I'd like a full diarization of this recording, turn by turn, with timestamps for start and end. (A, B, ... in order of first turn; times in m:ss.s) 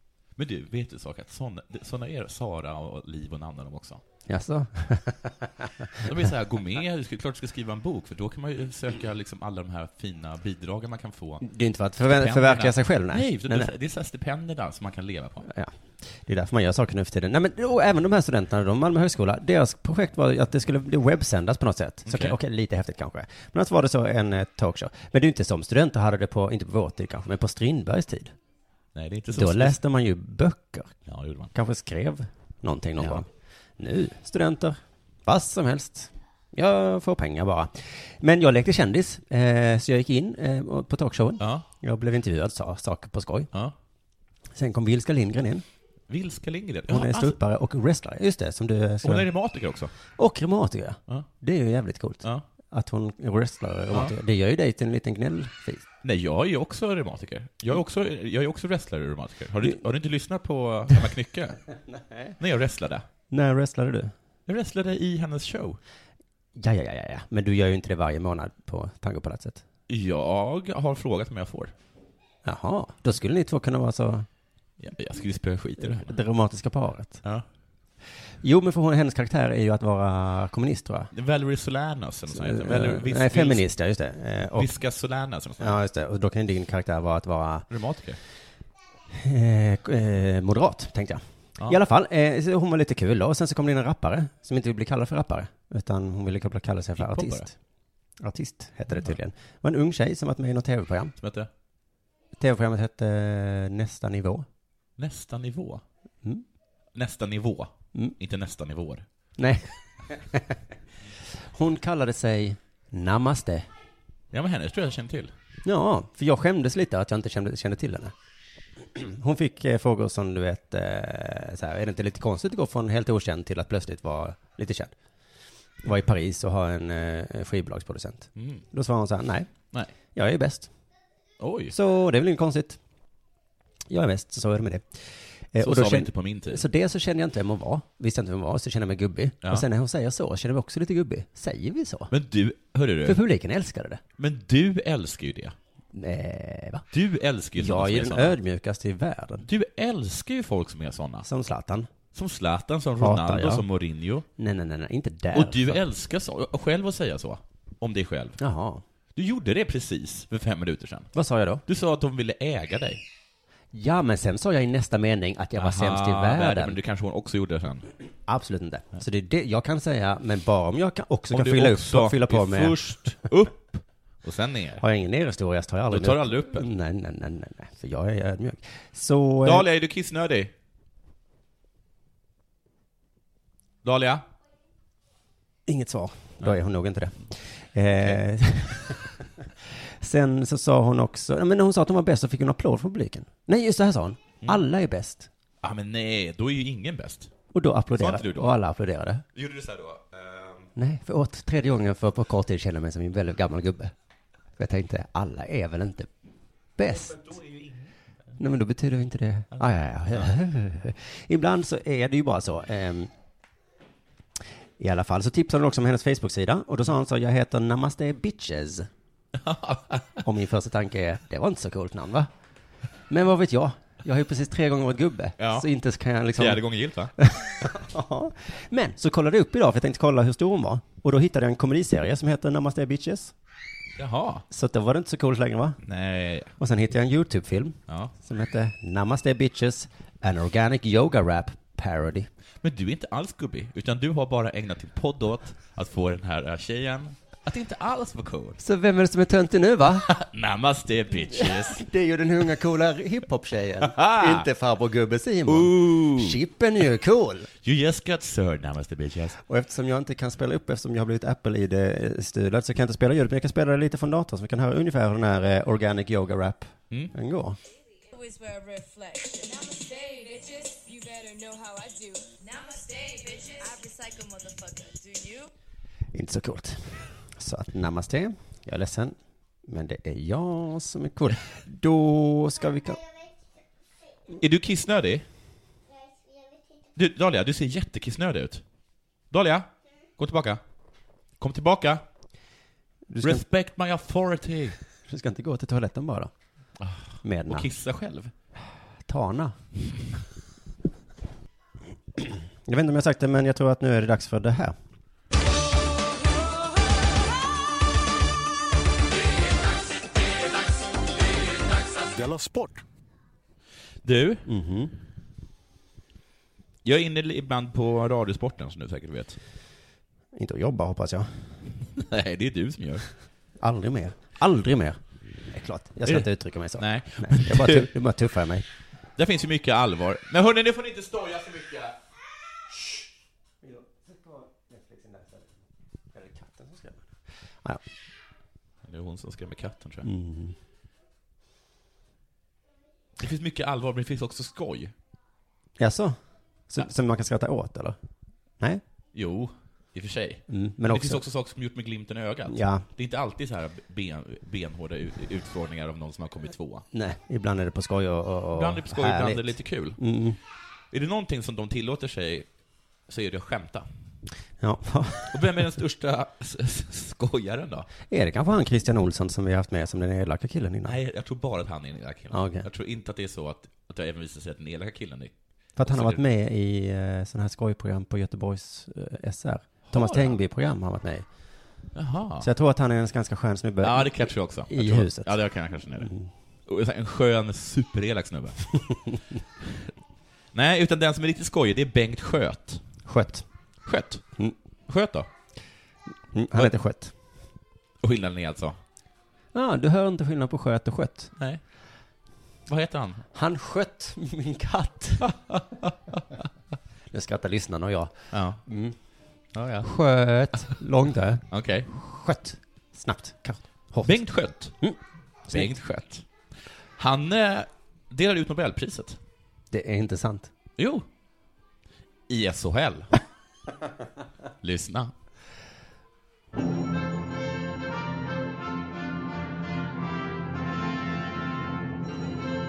0:00.4-0:04.0 A
0:04.3-0:05.9 B
0:06.0-0:11.4 A
0:11.4-0:13.7 B
0:12.0-0:15.5 A
0:15.5-0:28.3 B
0:22.1-0:22.4 A
0:29.0-0:29.8 A
0:29.3-0:30.9 B
0:31.1-0:31.5 A
0:31.5-0:33.3 B
0:33.8-0:43.5 B
0:41.4-0:41.6 A
0:44.5-0:45.6 B
0:46.1-0:47.4 A
0:46.9-0:49.3 B
0:49.0-0:49.9 A
0:50.2-0:55.8 B
0:56.0-1:01.6 A
1:02.0-1:02.3 B
1:02.4-1:03.0 A
1:03.3-1:04.1 B
1:04.5-1:05.8 A
1:06.6-1:09.6 B
1:09.9-1:11.7 A
1:12.4-1:14.3 B
1:14.8-1:16.2 A
1:15.8-1:17.2 B
1:18.4-1:21.1 B
1:21.1-1:23.7 A
1:22.3-1:24.7 B
1:24.6-1:25.8 A
1:25.6-1:27.7 B
1:27.7-1:28.2 A
1:29.1-1:37.6 B
1:37.0-1:37.5 A
1:38.2-1:41.2 B
1:41.2-1:41.5 A
1:42.4-1:44.5 B
1:45.0-1:45.8 A
1:47.0-1:49.0 A
1:49.4-1:50.6 B
1:51.5-1:53.7 B
1:54.3-1:55.3 A
1:55.6-1:58.1 B
1:58.8-2:04.9 B
2:05.8-2:09.5 B
2:08.4-2:08.6 A
2:10.2-2:10.7 B
2:11.4-2:11.7 A
2:11.7-2:12.8 B
2:13.9-2:15.0 B
2:15.5-2:22.1 B
2:15.6-2:16.6 A
2:22.1-2:23.2 A
2:23.0-2:24.0 B
2:24.2-2:25.6 A
2:25.9-2:26.8 B
2:26.9-2:28.4 A
2:27.6-2:29.5 B
2:29.4-2:31.3 A
2:31.2-2:31.9 B
2:32.1-2:34.2 A
2:33.0-2:33.6 B
2:34.4-2:35.8 B
2:35.3-2:38.4 A
2:38.4-2:38.8 B
2:39.2-2:41.1 A
2:41.2-2:41.6 B
2:41.7-2:43.0 A
2:43.7-2:46.8 B
2:45.6-2:47.9 A
2:48.3-2:52.8 B
2:51.3-2:54.8 A
2:54.8-2:59.7 B
2:55.9-2:56.7 A
2:59.4-3:00.5 A
3:03.8-3:04.2 A
3:05.7-3:09.1 B
3:09.7-3:15.3 B
3:15.6-3:17.3 A
3:17.5-3:19.2 B
3:18.0-3:18.6 A
3:19.4-3:20.7 A
3:20.8-3:23.9 B
3:24.6-3:26.1 B
3:26.8-3:27.2 B
3:26.8-3:27.9 A
3:28.4-3:33.1 B
3:34.8-3:38.9 B
3:39.4-3:40.2 A
3:40.2-3:42.3 B
3:43.1-3:46.6 B
3:45.4-3:45.7 A
3:46.4-3:47.2 A
3:47.2-3:53.3 B
3:54.0-3:54.4 A
3:54.5-3:55.8 B
3:55.8-3:56.5 A
3:56.6-4:02.3 B
4:02.6-4:08.6 A
4:08.6-4:10.1 B
4:10.1-4:11.8 A
4:11.3-4:17.5 B
4:13.8-4:14.5 A
4:15.5-4:16.4 A
4:17.6-4:19.4 A
4:19.5-4:27.6 B
4:28.1-4:35.5 C
4:36.1-4:43.0 B
4:44.4-4:45.2 A
4:47.0-4:48.6 A
4:49.3-4:49.7 A
4:50.2-4:50.6 A
4:51.4-4:52.0 A
4:53.1-4:53.4 B
4:53.2-4:54.8 A
4:55.1-4:56.3 B
4:56.8-4:58.3 A
4:57.2-4:57.7 B
4:59.1-4:59.6 B
5:02.2-5:04.8 B
5:14.0-5:14.5 A
5:14.5-5:14.9 B
5:16.8-5:19.4 A
5:20.4-5:21.3 B
5:22.0-5:23.1 A
5:23.6-5:25.0 B
5:25.5-5:28.7 B
5:26.8-5:27.9 A
5:29.2-5:32.0 A
5:33.6-5:35.6 B
5:36.1-5:37.1 B
5:38.8-5:40.1 A
5:40.0-5:40.6 B
5:43.2-5:44.9 A
5:45.8-5:46.2 B
5:46.7-5:48.0 B
5:49.2-5:56.8 A
5:50.5-5:51.2 B
5:52.5-5:52.9 B
5:56.9-6:00.4 B
5:58.6-6:00.0 A
6:00.9-6:02.5 A
6:03.1-6:03.9 A
6:04.6-6:05.5 B
6:05.3-6:07.9 A
6:08.1-6:11.0 B
6:10.8-6:15.3 A
6:12.3-6:12.7 B
6:15.8-6:21.3 B
6:15.8-6:16.2 A
6:19.9-6:20.4 A
6:22.0-6:22.5 A
6:22.4-6:25.4 B
6:23.8-6:26.1 A
6:26.0-6:26.3 B
6:26.7-6:28.8 A
6:30.5-6:32.8 A
6:33.1-6:33.4 B
6:33.9-6:34.2 A
6:34.9-6:35.3 A
6:36.3-6:37.1 B
6:38.0-6:38.8 A
6:39.5-6:41.3 B
6:42.7-6:43.2 A
6:43.3-6:45.2 B
6:45.2-6:46.2 A
6:47.1-6:48.1 B
6:48.3-6:48.6 A
6:48.7-6:49.0 B
6:49.6-6:49.9 A
6:49.8-6:54.2 B
6:51.5-6:51.9 A
6:54.0-6:54.8 A
6:55.5-6:56.3 A
6:57.0-6:59.2 A
6:59.7-7:00.5 B
7:00.8-7:01.1 A
7:02.3-7:03.1 A
7:04.6-7:05.1 A